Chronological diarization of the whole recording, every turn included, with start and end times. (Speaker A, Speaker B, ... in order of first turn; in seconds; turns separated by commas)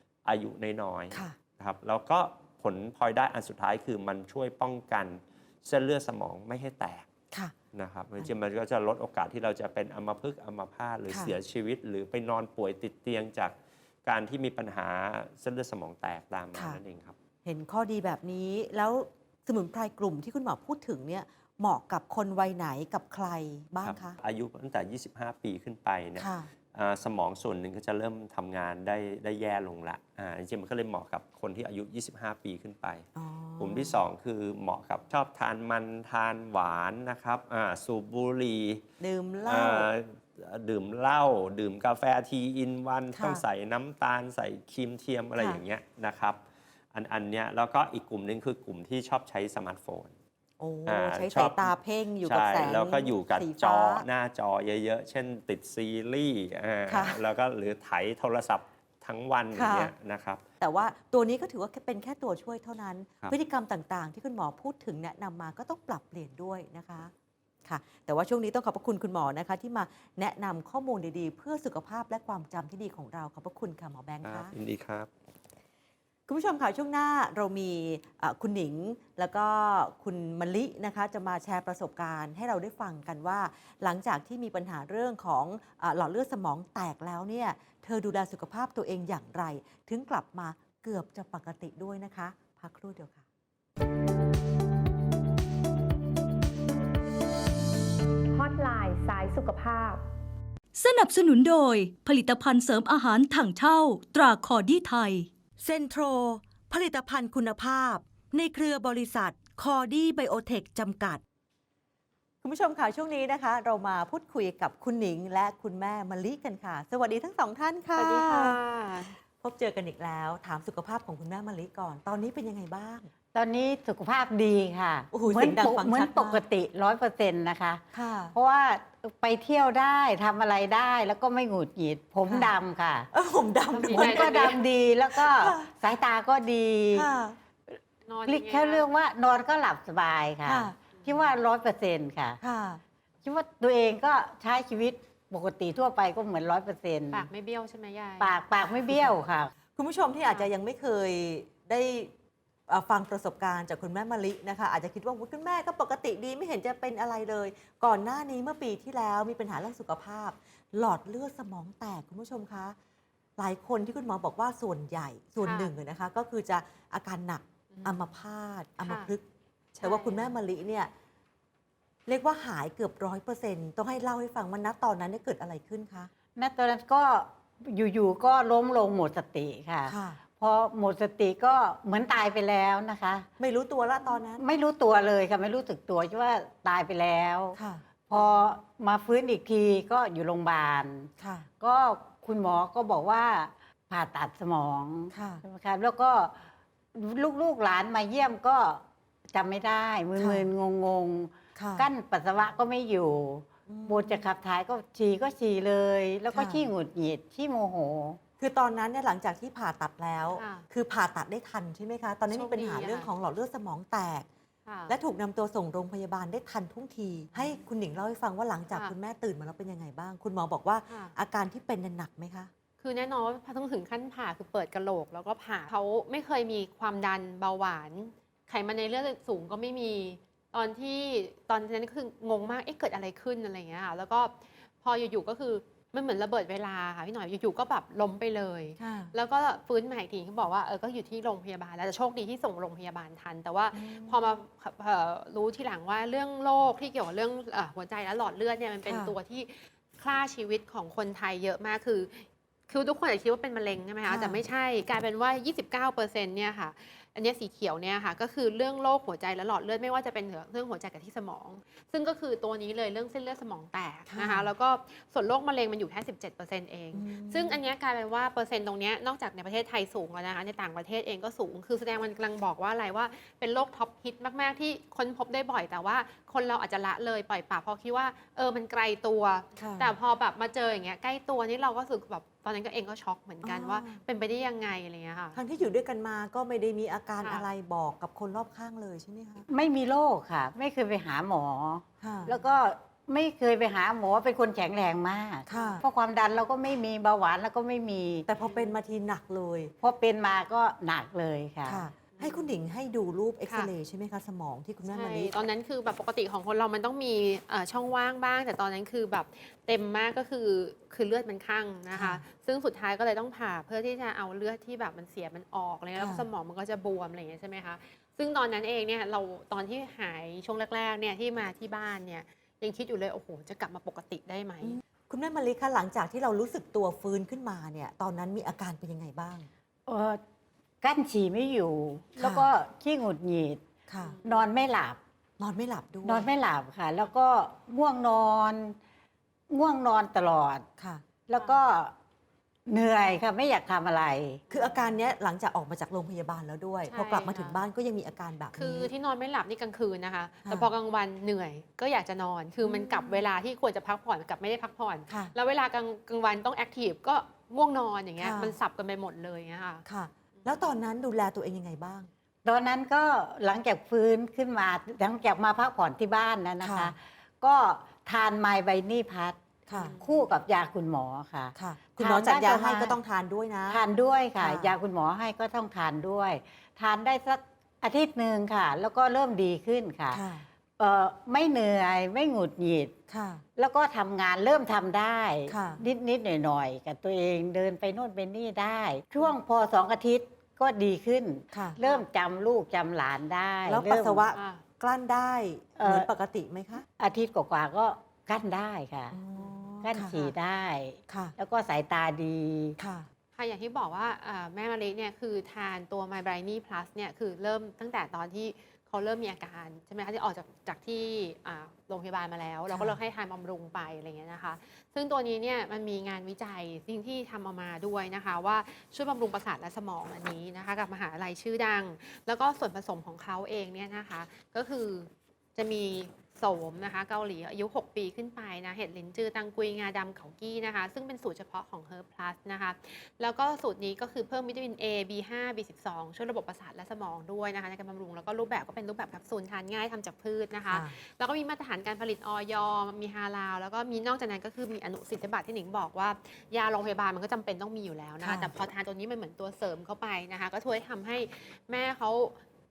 Speaker A: 0.2-7.1, Speaker B: 1.1-1.4, Speaker A: 7.7-17.1, Speaker B: 11.1-11.4, Speaker B: 16.5-16.8, Speaker B: 17.4-24.2, Speaker A: 23.8-33.0, Speaker B: 26.2-26.5, Speaker B: 33.1-34.0, Speaker A: 33.6-38.8, Speaker B: 39.0-39.9, Speaker A: 39.4-46.4, Speaker B: 43.1-43.4, Speaker B: 45.4-45.6, Speaker A: 46.9-50.1, Speaker B: 50.6-54.0, Speaker A: 50.9-60.4, Speaker B: 56.9-57.2, Speaker B: 59.5-59.9, Speaker B: 60.6-67.1, Speaker B: 67.7-74.5, Speaker A: 74.2-75.1, Speaker B: 76.3-93.2, Speaker C: 100.7-105.3, Speaker B: 105.6-111.2, Speaker B: 112.4-123.1, Speaker D: 118.0-119.1, Speaker E: 123.3-133.1, Speaker B: 125.1-126.4, Speaker B: 127.9-128.3, Speaker B: 132.2-132.6, Speaker B: 133.1-135.7, Speaker D: 133.8-134.6, Speaker E: 133.8-137.1, Speaker B: 136.9-137.4, Speaker D: 138.1-138.9, Speaker E: 138.2-142.4, Speaker B: 140.4-140.8, Speaker B: 142.4-142.8, Speaker E: 143.2-147.3, Speaker D: 147.1-148.2, Speaker E: 148.2-149.5, Speaker B: 149.8-152.1, Speaker B: 152.7-162.8, Speaker B: 163.4-170.9, Speaker D: 165.4-165.7, Speaker D: 168.8-169.1, Speaker D: 169.8-170.2, Speaker B: 172.1-176.1, Speaker E: 176.3-183.3, Speaker B: 179.8-180.2, Speaker B: 183.4-184.4, Speaker E: 184.3-208.2, Speaker B: 187.6-187.8, Speaker B: 191.2-191.5, Speaker B: 195.1-195.4, Speaker B: 200.2-200.5, Speaker B: 201.6-201.9, Speaker B: 203.7-204.3, Speaker B: 206.3-206.7, Speaker B: 208.4-214.3, Speaker D: 210.3-210.6, Speaker D: 212.3-213.1, Speaker D: 214.7-214.9, Speaker B: 214.9-222.5, Speaker D: 220.9-221.1, Speaker D: 222.8-285.4, Speaker B: 238.8-239.1, Speaker B: 243.7-244.4, Speaker B: 248.8-249.2, Speaker B: 254.0-254.4, Speaker B: 264.1-264.5, Speaker B: 266.9-267.6, Speaker B: 279.6-279.9, Speaker B: 283.4-284.0, Speaker B: 285.3-289.4, Speaker E: 289.5-298.2, Speaker B: 292.0-292.5, Speaker B: 295.5-295.8, Speaker B: 298.3-299.7, Speaker E: 299.8-301.8, Speaker B: 301.6-305.3, Speaker D: 302.2-302.4, Speaker D: 304.9-324.7, Speaker B: 311.9-312.2, Speaker B: 315.9-316.3, Speaker B: 324.6-329.5, Speaker E: 329.9-330.2, Speaker E: 330.8-333.6, Speaker B: 332.2-332.5, Speaker B: 333.9-334.2, Speaker E: 334.2-335.0, Speaker B: 335.4-336.3, Speaker E: 336.0-338.8, Speaker E: 339.5-340.7, Speaker B: 340.8-341.0, Speaker E: 341.3-341.9, Speaker E: 342.7-344.4, Speaker B: 344.5-348.9, Speaker D: 346.9-347.6, Speaker D: 348.6-359.8, Speaker B: 350.4-350.7, Speaker B: 352.6-353.3, Speaker B: 355.1-355.3, Speaker B: 358.2-358.6, Speaker B: 359.9-362.1, Speaker E: 362.4-369.4, Speaker B: 366.6-366.9, Speaker B: 369.7-370.0, Speaker D: 369.7-370.0, Speaker E: 370.0-373.0, Speaker B: 371.5-373.8, Speaker E: 373.7-380.2, Speaker B: 374.4-374.8, Speaker B: 380.1-380.5, Speaker E: 380.8-382.9, Speaker B: 383.1-383.4, Speaker E: 383.6-394.2, Speaker B: 385.5-385.8, Speaker B: 391.5-391.8, Speaker B: 393.6-396.9, Speaker D: 394.3-394.6, Speaker E: 395.8-396.1, Speaker E: 397.0-399.2, Speaker B: 399.1-400.3, Speaker E: 399.8-402.8, Speaker B: 401.1-401.3, Speaker B: 402.8-403.1, Speaker D: 403.4-452.3, Speaker B: 412.7-413.0, Speaker B: 440.7-440.9, Speaker B: 448.2-448.5